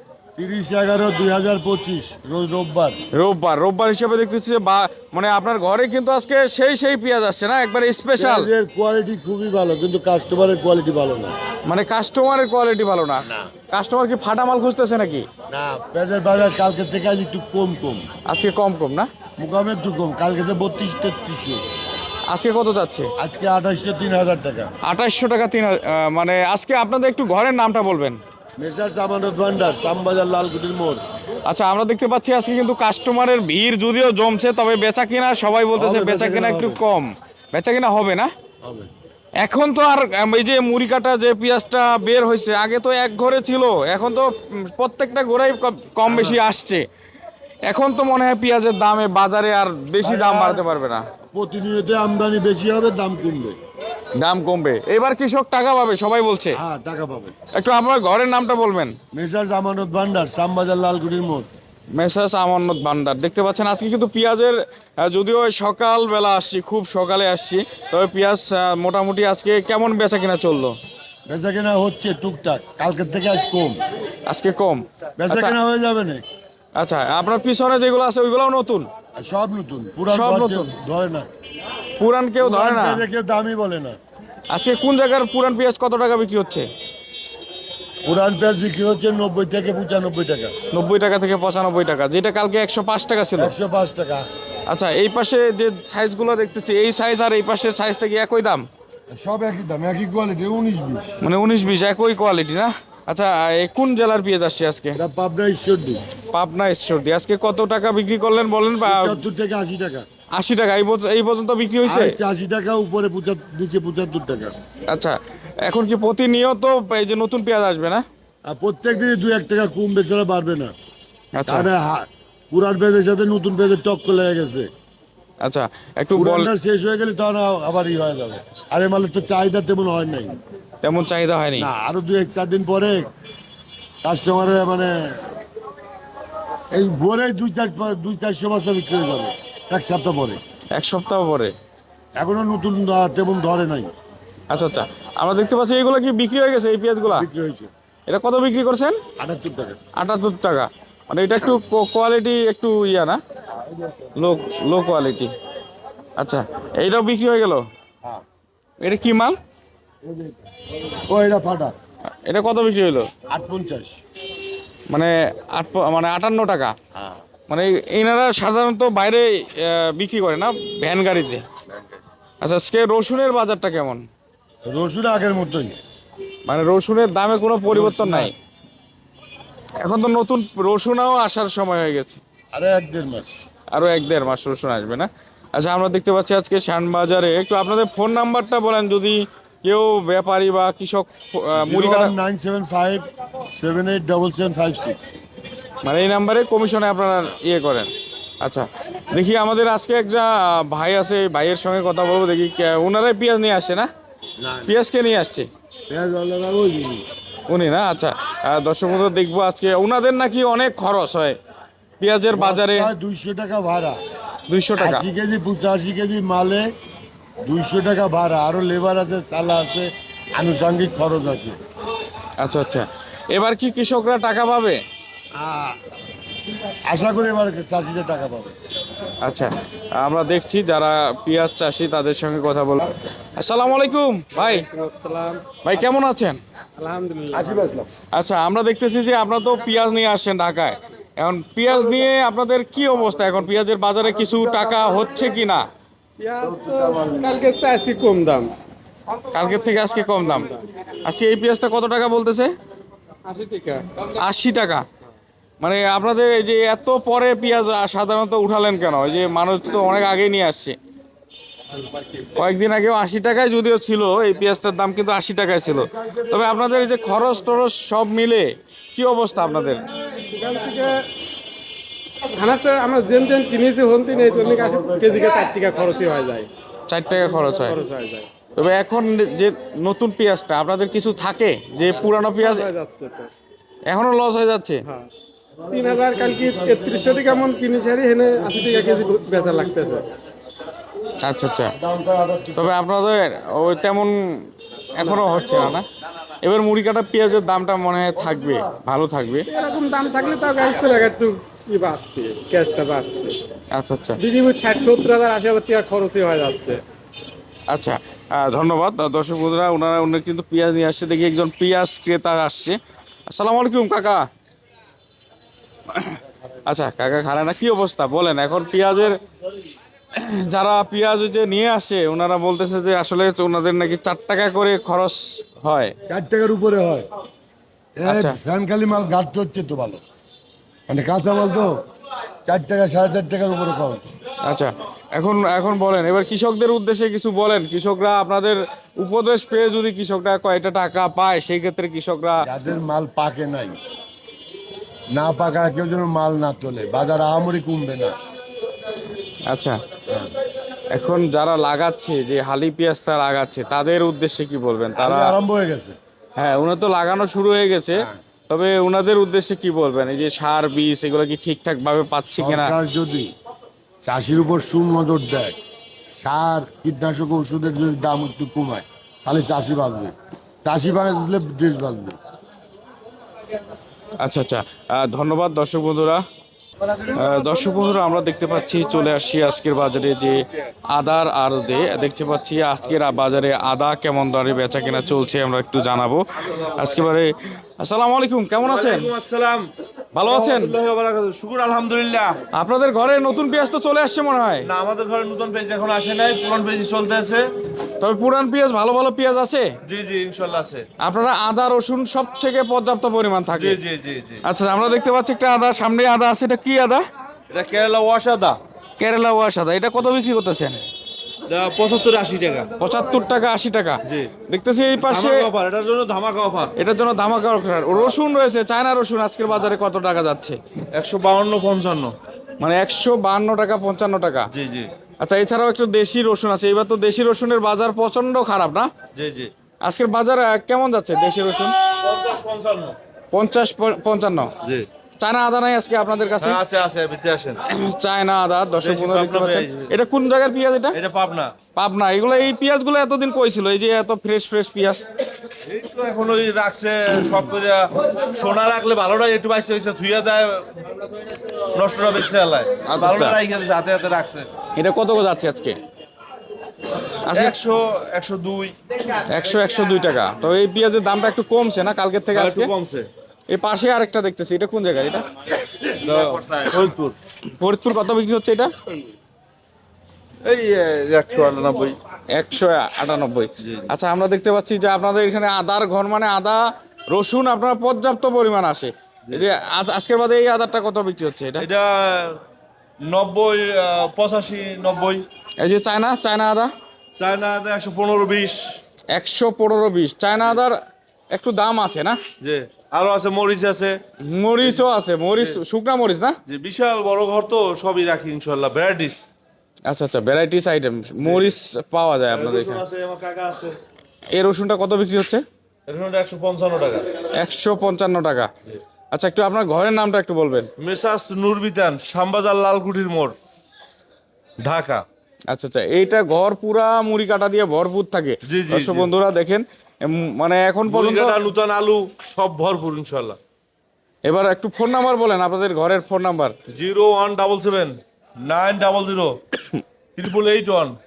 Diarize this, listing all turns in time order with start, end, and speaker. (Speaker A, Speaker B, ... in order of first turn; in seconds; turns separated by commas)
Speaker A: 0.3-3.0, Speaker B: 3.1-8.5, Speaker A: 8.2-11.3, Speaker B: 11.6-15.3, Speaker A: 13.2-13.5, Speaker A: 15.5-18.1, Speaker B: 18.3-19.1, Speaker A: 19.4-21.6, Speaker B: 22.3-23.1, Speaker A: 23.2-24.7, Speaker B: 24.8-28.2, Speaker A: 28.6-31.0, Speaker B: 31.4-38.3, Speaker A: 35.7-36.8, Speaker A: 38.6-38.9, Speaker B: 39.4-46.8, Speaker A: 46.1-46.4, Speaker B: 47.6-51.0, Speaker A: 50.0-50.6, Speaker A: 51.3-53.5, Speaker B: 54.2-56.6, Speaker A: 56.5-57.3, Speaker B: 57.5-59.0, Speaker A: 59.1-61.5, Speaker B: 61.9-70.8, Speaker A: 71.3-73.8, Speaker B: 74.3-75.6, Speaker A: 75.2-76.2, Speaker B: 76.8-78.9, Speaker A: 79.2-81.3, Speaker B: 80.1-80.7, Speaker B: 82.0-83.0, Speaker A: 82.4-84.0, Speaker B: 84.5-86.7, Speaker A: 88.0-90.5, Speaker B: 90.7-93.5, Speaker A: 93.4-94.3, Speaker B: 94.7-98.7, Speaker A: 99.1-101.1, Speaker B: 101.2-105.0, Speaker A: 104.9-106.0, Speaker B: 106.3-109.2, Speaker A: 108.8-110.0, Speaker B: 110.3-112.1, Speaker A: 111.8-114.5, Speaker B: 114.9-118.0, Speaker A: 118.5-120.7, Speaker B: 121.3-121.7, Speaker A: 121.5-124.7, Speaker B: 125.4-126.5, Speaker A: 126.1-130.4, Speaker B: 130.8-131.7, Speaker A: 131.6-133.1, Speaker A: 134.0-135.1, Speaker A: 136.7-140.4, Speaker B: 140.7-141.5, Speaker A: 142.2-143.9, Speaker B: 144.5-147.3, Speaker A: 147.1-147.7, Speaker B: 148.1-149.0, Speaker A: 149.2-149.8, Speaker B: 150.0-153.2, Speaker B: 154.2-155.3, Speaker B: 156.2-157.6, Speaker B: 158.8-159.4, Speaker A: 160.0-160.4, Speaker A: 160.9-161.7, Speaker B: 162.2-163.1, Speaker A: 163.3-164.0, Speaker B: 164.9-166.7, Speaker A: 166.9-167.2, Speaker B: 167.5-171.4, Speaker A: 171.7-172.0, Speaker B: 172.4-174.0, Speaker A: 174.7-175.8, Speaker B: 176.5-178.3, Speaker A: 177.7-178.3, Speaker B: 179.8-182.2, Speaker A: 182.5-183.4, Speaker B: 183.7-192.1, Speaker A: 191.6-195.0, Speaker B: 195.8-197.9, Speaker B: 198.4-203.9, Speaker A: 204.4-204.8, Speaker B: 204.7-205.5, Speaker A: 205.9-207.0, Speaker B: 207.5-211.4, Speaker B: 212.0-212.9, Speaker A: 212.3-214.0, Speaker B: 214.5-215.1, Speaker A: 214.8-216.7, Speaker A: 217.4-221.6, Speaker B: 222.4-224.8, Speaker A: 225.4-225.7, Speaker A: 226.9-228.5, Speaker B: 229.2-234.6, Speaker C: 234.3-235.6, Speaker B: 235.6-236.4, Speaker C: 236.8-237.7, Speaker A: 237.3-237.9, Speaker B: 238.1-245.6, Speaker A: 244.3-244.8, Speaker C: 246.2-248.5, Speaker A: 246.4-247.3, Speaker B: 249.3-250.5, Speaker C: 250.3-250.6, Speaker B: 251.0-252.5, Speaker C: 253.2-253.9, Speaker B: 254.1-254.8, Speaker B: 255.6-260.8, Speaker B: 262.4-269.8, Speaker C: 270.2-271.0, Speaker C: 272.3-276.5, Speaker A: 274.2-275.3, Speaker B: 276.9-277.8, Speaker C: 277.4-278.3, Speaker B: 278.5-282.7, Speaker C: 282.1-283.3, Speaker B: 283.9-284.8, Speaker A: 285.6-287.6, Speaker C: 285.7-290.0, Speaker A: 288.3-290.0, Speaker B: 291.2-291.7, Speaker A: 291.8-292.7, Speaker B: 292.5-295.9, Speaker B: 296.4-299.5, Speaker A: 298.2-298.7, Speaker C: 299.5-303.4, Speaker B: 303.7-304.2, Speaker C: 304.2-306.8, Speaker B: 307.7-312.8, Speaker B: 313.3-314.2, Speaker B: 315.9-319.1, Speaker B: 320.1-325.9, Speaker A: 326.1-327.1, Speaker A: 328.0-330.0, Speaker B: 328.1-328.4, Speaker A: 330.9-331.8, Speaker A: 332.4-334.1, Speaker B: 334.4-342.4, Speaker A: 342.4-343.8, Speaker A: 345.1-348.1, Speaker B: 349.5-349.8, Speaker B: 350.9-355.4, Speaker A: 355.0-355.9, Speaker B: 356.4-362.7, Speaker A: 362.3-363.3, Speaker A: 364.0-365.6, Speaker A: 366.1-372.2, Speaker B: 374.2-376.2, Speaker B: 377.0-389.1, Speaker D: 388.6-389.7, Speaker B: 390.1-390.7, Speaker D: 390.2-392.4, Speaker B: 392.5-394.7, Speaker D: 394.6-397.5, Speaker B: 398.0-399.7, Speaker D: 399.9-400.9, Speaker B: 401.0-403.8, Speaker D: 403.5-404.4, Speaker B: 404.4-407.0, Speaker D: 407.5-408.6, Speaker B: 409.0-410.8, Speaker D: 411.5-412.7, Speaker B: 412.8-415.5, Speaker D: 414.1-414.3, Speaker D: 415.0-416.7, Speaker B: 416.8-420.6, Speaker D: 420.9-422.1, Speaker B: 422.6-424.5, Speaker D: 424.5-424.9, Speaker B: 425.2-428.9, Speaker D: 429.1-429.5, Speaker B: 429.8-431.7, Speaker D: 432.0-433.0, Speaker B: 433.3-434.5, Speaker B: 435.2-436.6, Speaker D: 436.4-437.6, Speaker B: 437.7-440.9, Speaker D: 438.8-439.9, Speaker D: 440.9-441.5, Speaker B: 441.8-445.1, Speaker D: 445.6-450.7, Speaker D: 451.7-454.5, Speaker B: 452.8-453.4, Speaker B: 454.7-455.8, Speaker B: 457.2-457.5, Speaker D: 457.3-458.7, Speaker B: 459.3-462.7, Speaker D: 462.3-463.1, Speaker B: 463.5-465.2, Speaker D: 466.0-467.2, Speaker B: 467.6-468.7, Speaker D: 470.4-472.0, Speaker B: 472.3-481.7, Speaker D: 473.6-473.9, Speaker D: 481.6-482.4, Speaker D: 483.0-485.2, Speaker B: 485.6-486.7, Speaker D: 487.1-488.8, Speaker B: 489.1-490.8, Speaker B: 491.3-492.2, Speaker D: 492.4-494.0, Speaker B: 494.2-496.4, Speaker D: 494.6-495.6, Speaker D: 496.5-499.3, Speaker B: 499.9-502.8, Speaker D: 501.2-501.5, Speaker D: 502.3-503.8, Speaker B: 504.3-505.4, Speaker D: 505.9-507.1, Speaker B: 507.4-508.5, Speaker B: 509.1-510.7, Speaker D: 510.8-513.4, Speaker D: 514.6-515.0, Speaker B: 515.5-521.4, Speaker D: 518.5-519.1, Speaker D: 520.9-523.4, Speaker B: 524.2-526.5, Speaker D: 526.7-529.4, Speaker D: 530.1-531.0